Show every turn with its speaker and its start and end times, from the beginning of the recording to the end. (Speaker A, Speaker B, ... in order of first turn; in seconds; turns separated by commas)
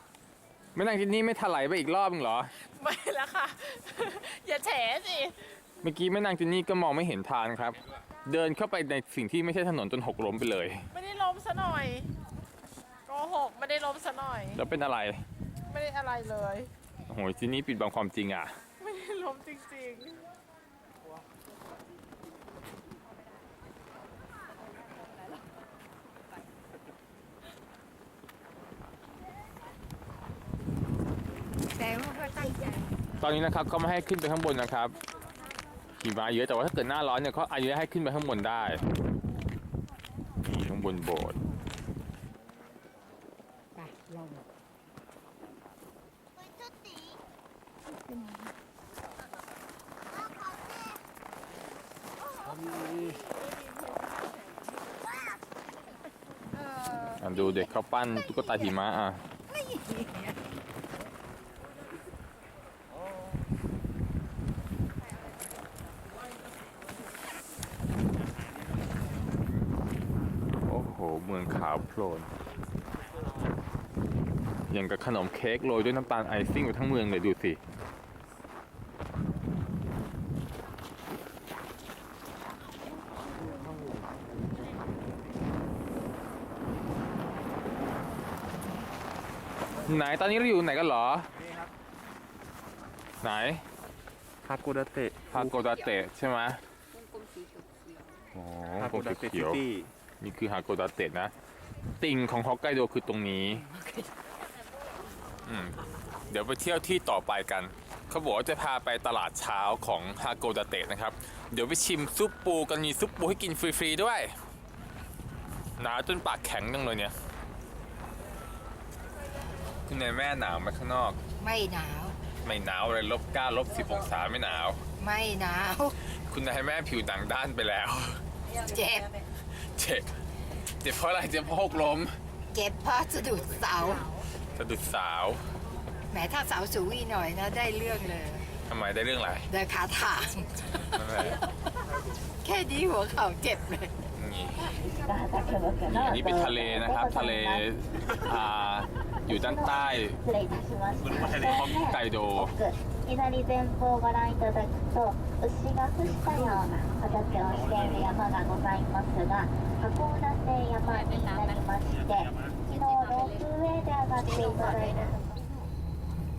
Speaker A: 0.7-2.5, Speaker B: 2.6-5.3, Speaker A: 5.8-10.8, Speaker B: 10.9-12.1, Speaker B: 13.1-14.6, Speaker A: 14.5-15.2, Speaker B: 15.7-16.7, Speaker A: 17.1-18.6, Speaker B: 18.8-20.2, Speaker C: 31.7-32.7, Speaker A: 33.2-35.0, Speaker A: 36.0-38.8, Speaker A: 40.4-41.4, Speaker C: 43.8-44.4, Speaker A: 57.2-59.2, Speaker C: 59.8-60.0, Speaker A: 70.6-72.3, Speaker A: 74.7-77.6, Speaker A: 89.9-91.3, Speaker A: 93.2-93.6, Speaker D: 94.4-95.7, Speaker A: 95.3-96.6, Speaker A: 98.3-99.6, Speaker D: 98.8-99.9, Speaker A: 100.2-101.3, Speaker A: 102.0-103.6, Speaker A: 105.5-105.8, Speaker A: 106.3-114.3, Speaker A: 115.8-117.1, Speaker A: 119.9-121.2, Speaker C: 121.4-122.1, Speaker A: 122.4-124.8, Speaker C: 125.0-125.9, Speaker A: 126.3-128.2, Speaker C: 128.7-129.1, Speaker A: 129.6-130.2, Speaker A: 130.8-132.2, Speaker C: 132.5-134.1, Speaker A: 134.6-135.4, Speaker C: 136.1-138.5, Speaker A: 138.7-139.5, Speaker C: 139.5-140.9, Speaker A: 140.9-141.4, Speaker C: 142.4-143.9, Speaker A: 144.1-144.7, Speaker E: 144.8-147.6, Speaker A: 145.9-150.2, Speaker E: 149.3-165.4, Speaker D: 151.1-151.6, Speaker A: 151.4-152.5